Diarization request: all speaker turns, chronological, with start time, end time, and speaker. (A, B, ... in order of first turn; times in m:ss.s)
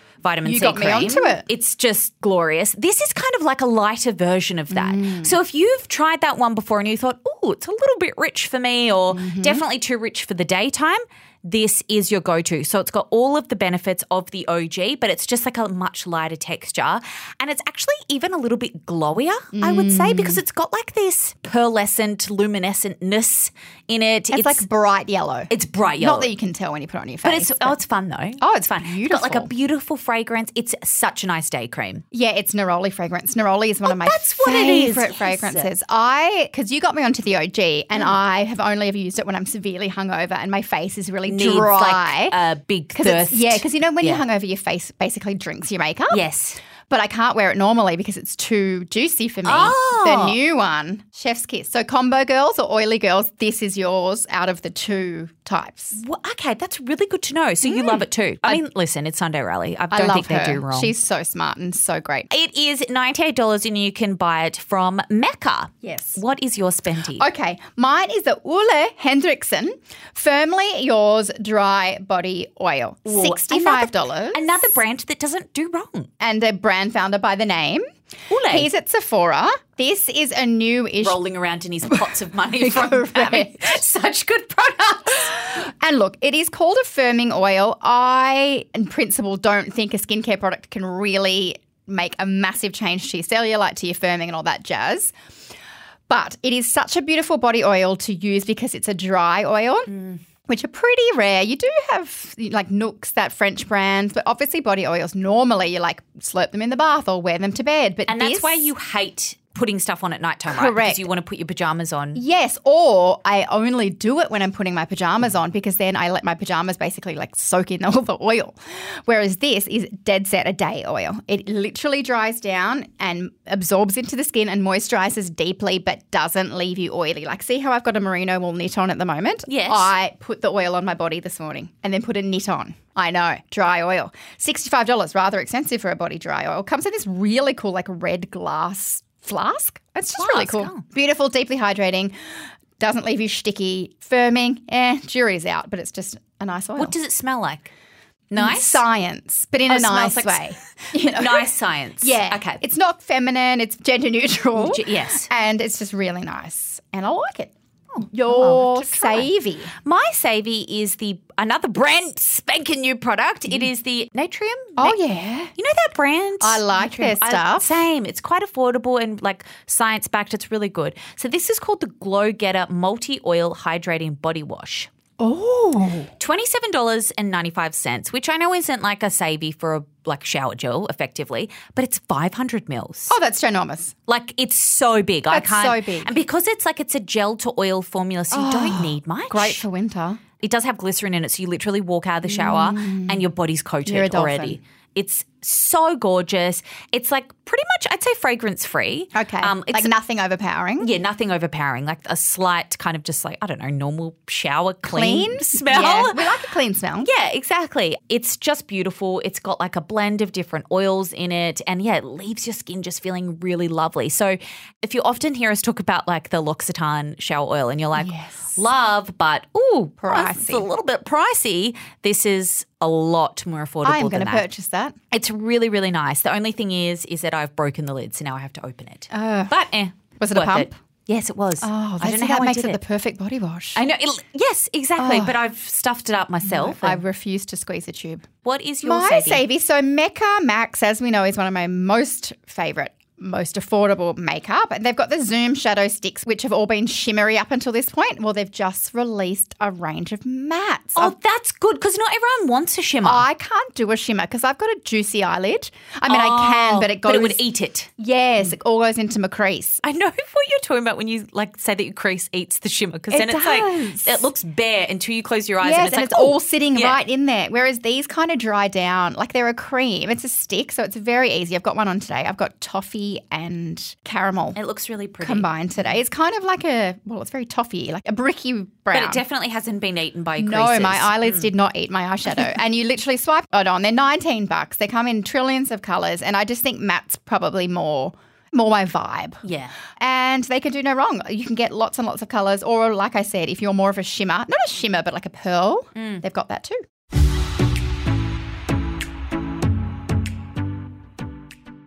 0:00.2-0:24.6 A
0:00.4-0:01.4 B
0:04.7-0:05.3 B
0:09.1-0:09.6 B
0:19.5-0:20.4 B
0:24.3-0:27.8 B
0:25.5-0:26.3 A
0:27.2-0:32.0 A
0:28.4-0:29.5 B
0:32.1-0:42.3 B
0:33.8-0:35.7 A
0:41.3-0:44.2 A
0:42.9-0:46.2 B
0:46.1-0:46.6 A
0:46.9-0:56.0 B
0:49.4-0:50.4 A
0:55.9-1:01.0 A
0:57.6-0:58.6 B
0:59.9-1:02.3 B
1:02.3-1:07.2 A
1:05.8-1:06.2 B
1:07.2-1:14.7 B
1:13.0-1:16.1 A
1:16.2-1:17.8 B
1:18.3-1:18.7 A
1:18.5-1:21.2 B
1:21.0-1:25.3 A
1:21.9-1:23.8 B
1:25.3-1:35.1 B
1:36.1-1:39.9 B
1:40.5-1:48.7 B
1:48.1-1:52.2 A
1:50.5-1:51.1 B
1:52.1-2:22.1 B
2:09.5-2:09.9 A
2:20.2-2:20.8 A
2:22.8-2:26.9 B
2:26.8-2:27.7 A
2:28.3-2:28.8 A
2:28.4-2:31.5 B
2:29.7-2:30.4 A
2:31.1-2:32.6 A
2:32.0-2:37.5 B
2:34.5-2:35.3 A
2:37.9-2:39.3 A
2:38.1-2:39.8 B
2:39.8-2:45.0 A
2:44.8-2:45.5 B
2:45.6-2:54.9 A
2:46.4-2:47.8 B
2:55.2-2:56.1 B
2:56.2-3:03.1 A
3:03.1-3:03.9 B
3:04.1-3:09.6 A
3:05.3-3:06.2 B
3:08.3-3:10.2 B
3:10.4-3:19.9 A
3:12.2-3:13.2 B
3:13.8-3:14.6 B
3:19.1-3:20.9 B
3:20.8-3:26.2 A
3:24.8-3:27.1 B
3:27.0-3:44.5 A
3:38.0-3:38.6 B
3:40.0-3:40.7 B
3:43.8-3:44.9 B
3:45.1-3:52.8 A
3:49.1-3:49.6 B
3:50.2-3:50.7 B
3:51.6-3:53.8 B
3:53.7-3:57.0 A
3:55.0-3:55.4 B
3:56.4-3:58.2 B
3:58.4-3:59.4 A
3:58.8-4:11.1 B
4:11.0-4:13.2 A
4:13.0-4:17.4 B
4:16.1-4:17.9 A
4:18.0-4:19.8 B
4:19.8-4:27.0 A
4:23.1-4:24.3 B
4:25.6-4:34.6 B
4:34.5-4:35.5 A
4:35.2-4:39.2 B
4:38.9-4:41.5 A
4:40.4-4:49.4 B
4:49.4-4:49.7 A
4:50.0-4:56.8 B
4:56.0-4:56.2 A